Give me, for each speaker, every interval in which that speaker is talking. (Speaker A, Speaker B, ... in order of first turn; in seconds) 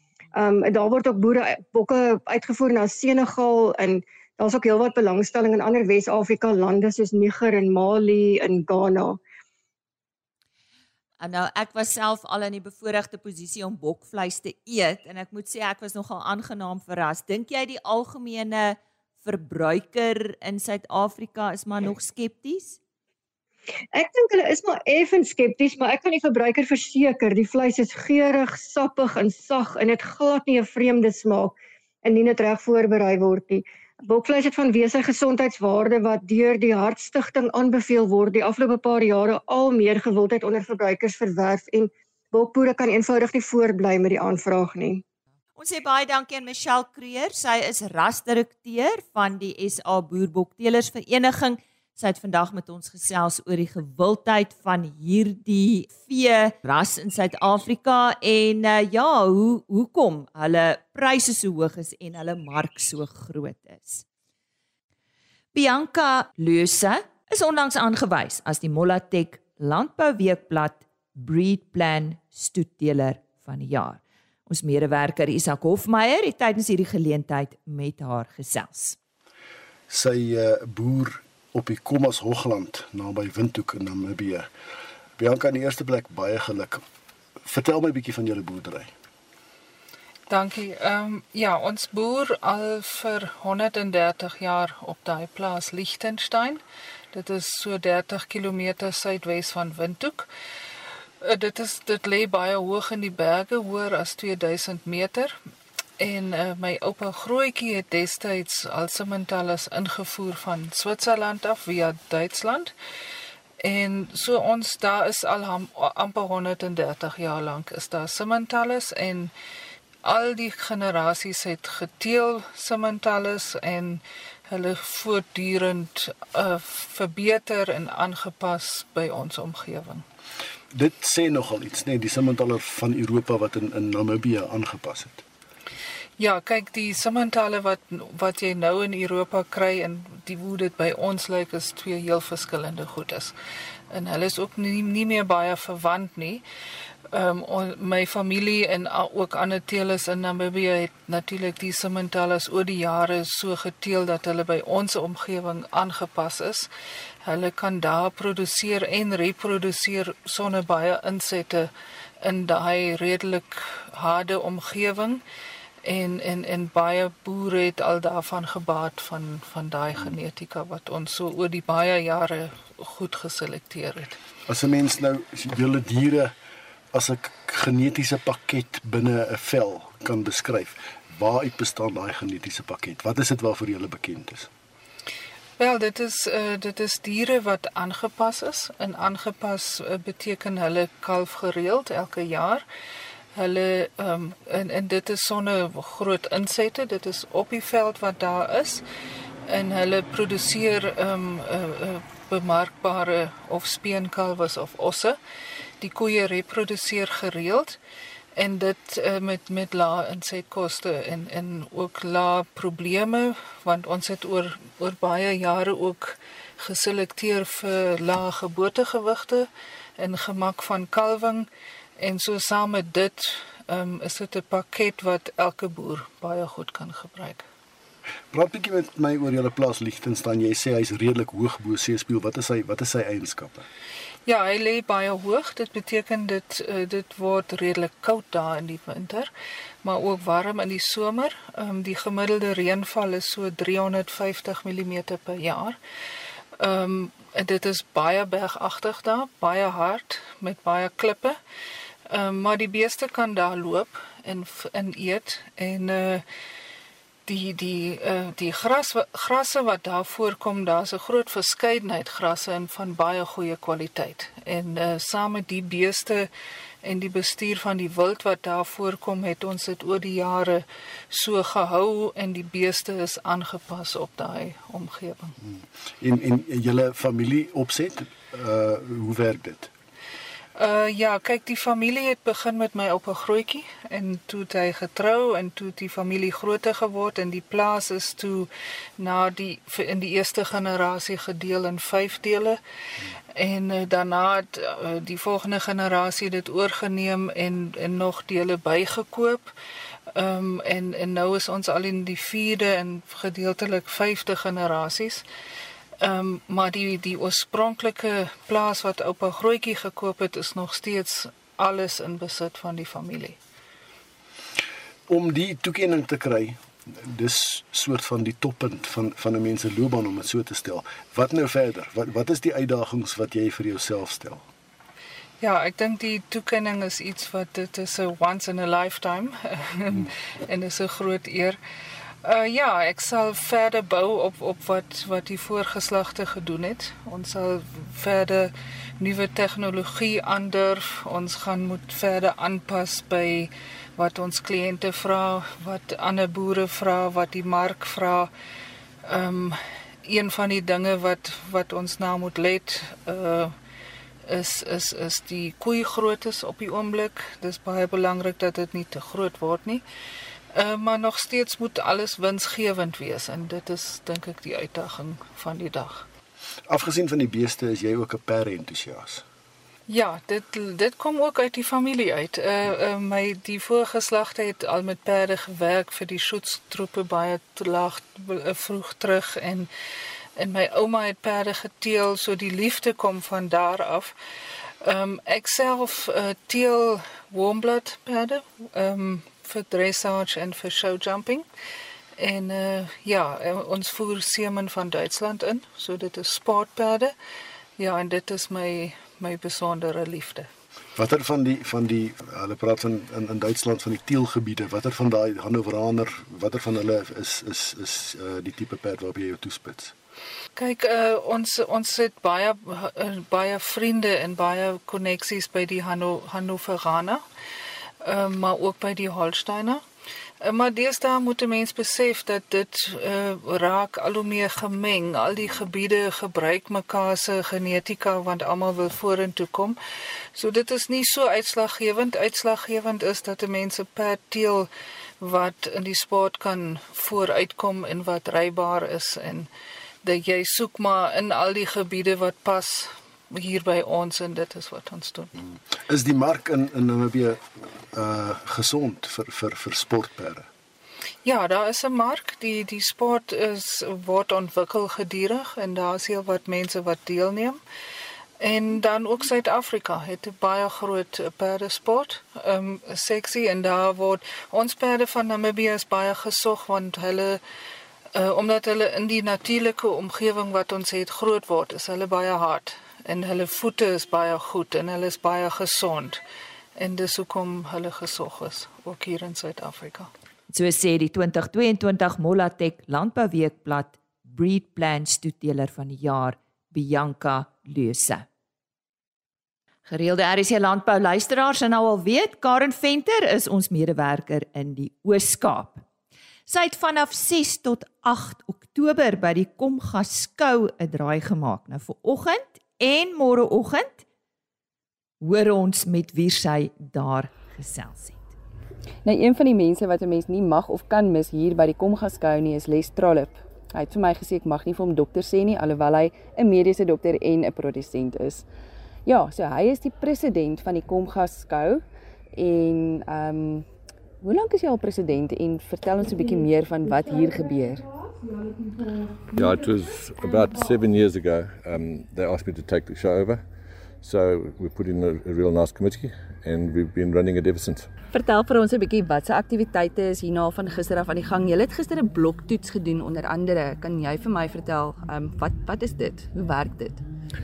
Speaker A: 0.3-9.2, 23.9-45.0
Speaker B: 11.2-22.8, 45.6-64.0, 65.5-79.0, 480.5-488.2, 489.9-495.9, 496.5-504.0, 505.2-508.3
Speaker C: 79.9-84.5, 85.2-86.8, 87.4-88.9, 130.7-135.2, 174.5-176.3, 176.9-184.5, 228.3-233.7, 275.4-279.7, 315.1-324.4, 366.7-369.2, 400.9-409.9, 445.9-450.5
Speaker D: 90.3-100.3, 101.2-105.4, 106.0-112.7, 113.6-119.3, 120.0-130.1, 136.2-143.3, 143.9-146.4, 147.1-156.7, 157.2-161.7, 162.2-165.2, 165.8-174.2, 185.6-192.7, 193.3-198.8, 199.5-205.2, 205.8-207.8, 208.4-227.4, 234.3-239.3, 239.8-245.8, 246.6-251.4, 252.1-256.2, 257.3-266.3, 266.8-275.4, 280.6-292.6, 293.4-299.5, 300.1-305.2, 306.0-313.4, 325.4-331.6, 332.2-348.3, 349.1-353.5, 354.3-359.8, 360.5-366.1, 369.9-379.7, 380.4-384.1, 384.8-391.5, 392.2-397.1, 397.8-400.5, 410.6-417.2, 418.0-419.8, 420.4-429.8, 430.3-434.7, 435.2-439.5, 440.0-445.3, 451.2-457.6, 458.4-467.4, 468.1-476.2, 476.8-480.1
Speaker E: 509.1-518.5, 519.1-521.8, 522.3-523.7, 524.2-527.9, 538.1-547.0
Speaker F: 529.3-533.4, 534.0-537.9